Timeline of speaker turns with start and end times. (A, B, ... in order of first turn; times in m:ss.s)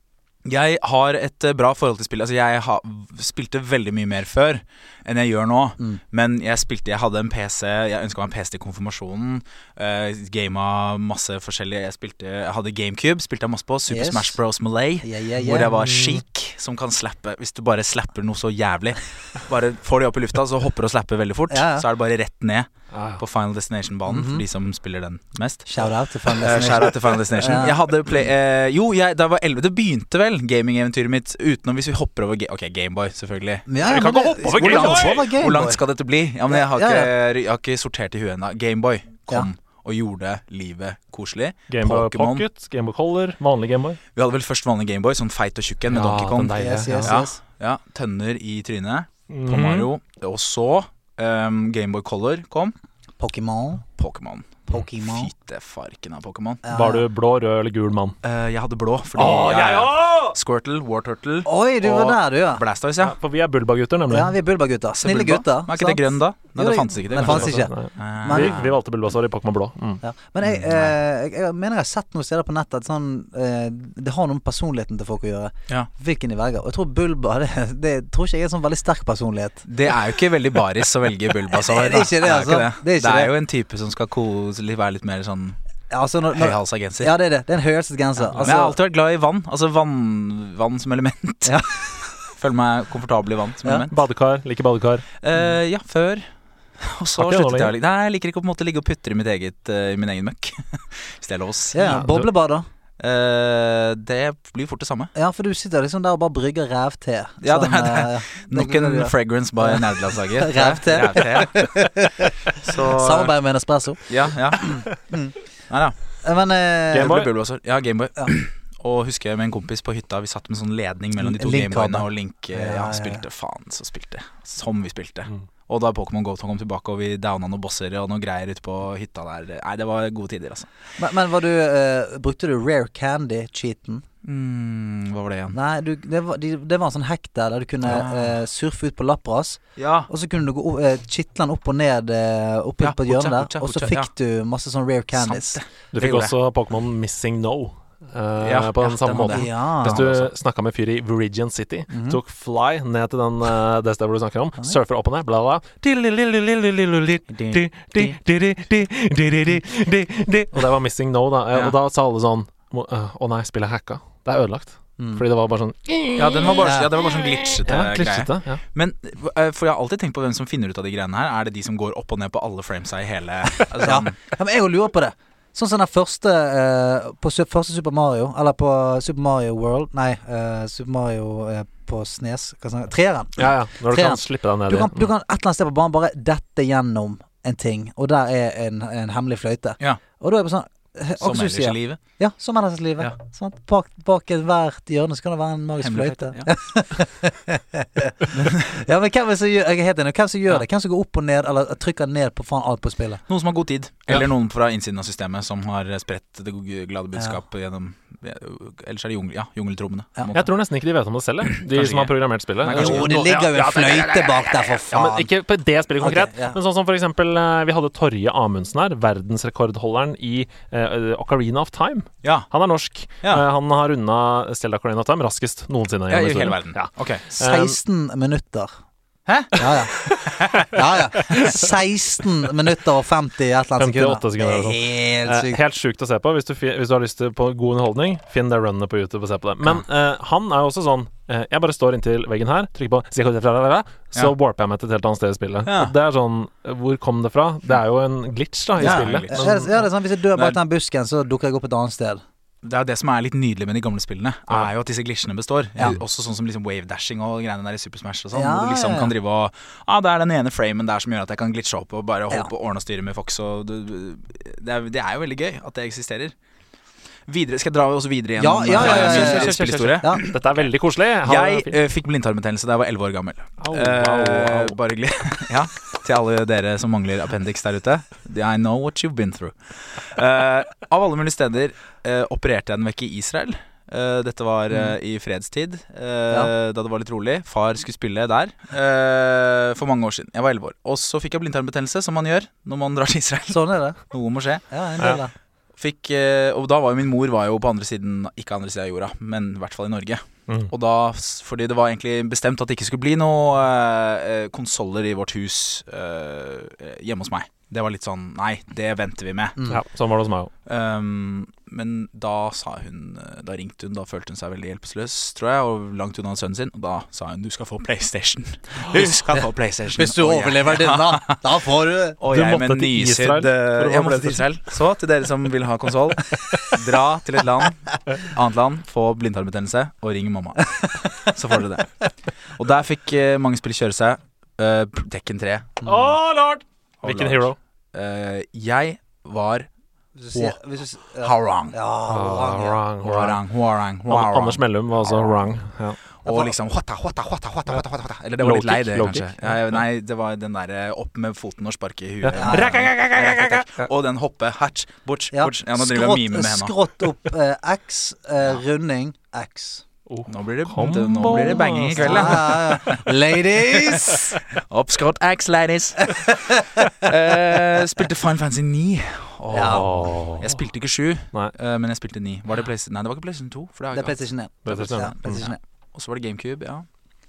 0:00.4-0:22.7 A
0:13.9-0:14.4 B
0:15.0-0:15.7 B
0:15.6-0:16.2 C
0:21.5-0:21.8 B
0:22.9-0:23.2 C
0:23.2-0:25.8 A
0:24.1-0:24.4 B
0:25.7-0:27.8 B
0:26.3-0:42.4 A
0:33.7-0:35.8 B
0:33.8-0:35.2 C
0:36.5-0:37.1 B
0:41.7-0:44.0 C
0:44.2-0:52.8 A
0:45.9-0:47.2 C
0:46.5-0:47.4 B
0:49.3-0:49.9 C
0:53.2-0:53.8 B
0:54.0-0:56.6 A
0:54.7-0:55.3 B
0:56.6-0:57.0 B
0:56.7-0:58.2 C
0:58.2-1:03.1 A
0:59.2-1:00.4 C
1:01.4-1:02.6 B
1:03.0-1:04.4 C
1:04.1-1:08.6 B
1:05.0-1:08.7 A
1:07.2-1:10.0 C
1:10.0-1:19.7 B
1:10.4-1:10.9 A
1:19.7-1:25.6 A
1:21.5-1:23.3 B
1:25.9-1:28.8 B
1:26.3-1:27.1 A
1:28.4-1:31.7 A
1:32.4-1:33.9 A
1:33.9-1:35.0 C
1:35.2-1:36.2 A
1:36.8-1:42.0 A
1:37.2-1:37.7 C
1:41.7-1:42.7 B
1:41.9-1:42.3 C
1:43.0-1:45.1 A
1:45.2-1:54.0 B
1:47.4-1:51.8 A
1:52.6-1:53.3 A
1:54.1-1:54.8 A
1:54.6-1:55.4 B
1:55.7-1:56.0 A
1:56.2-1:57.2 B
1:56.9-1:57.3 C
1:56.9-2:10.7 A
2:01.2-2:03.2 B
2:11.0-2:14.0 B
2:14.2-2:15.6 A
2:15.5-2:25.6 B
2:17.8-2:18.4 A
2:19.8-2:20.1 A
2:22.8-2:24.1 A
2:25.1-2:26.3 A
2:25.9-2:46.6 C
2:28.4-2:30.3 A
2:29.3-2:30.0 B
2:31.9-2:32.2 B
2:37.3-2:38.1 B
2:45.0-2:45.2 B
2:46.2-2:54.2 A
2:46.6-2:46.9 B
2:47.7-2:48.6 C
2:53.7-3:23.2 B
3:03.4-3:05.1 C
3:11.2-3:12.0 A
3:15.8-3:16.5 A
3:18.4-3:18.6 A
3:23.3-3:30.5 A
3:27.2-3:27.4 B
3:30.3-3:34.1 C
3:31.6-3:34.4 A
3:32.7-3:35.3 B
3:34.9-3:47.8 C
3:36.0-3:36.6 B
3:42.2-3:42.5 A
3:46.1-3:47.3 A
3:47.4-3:48.8 B
3:49.3-3:50.7 A
3:49.6-3:50.0 B
3:50.6-3:55.6 B
3:51.2-3:51.5 C
3:53.8-4:09.7 C
4:05.7-4:05.9 A
4:08.8-4:09.6 A
4:08.8-4:12.2 B
4:12.6-4:26.3 A
4:18.3-4:19.1 B
4:27.3-4:30.6 A
4:28.4-4:30.2 B
4:28.7-4:31.8 C
4:31.3-4:54.6 A
4:33.6-4:34.8 C
4:53.5-4:54.0 B
4:54.7-4:55.3 B
4:55.8-5:09.6 A
5:09.7-5:10.5 C
5:10.7-5:21.4 A
5:19.9-5:22.2 B
5:22.2-5:32.0 A
5:22.3-5:24.4 C
5:32.6-5:35.8 A
5:35.8-5:36.1 B
5:35.8-5:37.6 C
5:37.0-5:39.7 A
5:40.2-5:42.8 B
5:41.2-5:41.8 A
5:42.1-5:43.4 C
5:43.0-5:45.6 A
5:44.1-5:46.0 C
5:46.2-5:56.8 A
5:46.3-5:46.5 B
5:48.4-5:49.8 C
5:52.2-5:53.9 C
5:52.4-5:52.8 B
5:55.3-5:59.8 B
6:00.1-6:02.5 C
6:00.3-6:03.1 A
6:01.3-6:04.4 B
6:03.7-6:14.2 A
6:09.5-6:10.1 B
6:09.6-6:10.5 C
6:13.9-6:15.6 B
6:14.6-6:15.4 C
6:14.8-6:16.9 A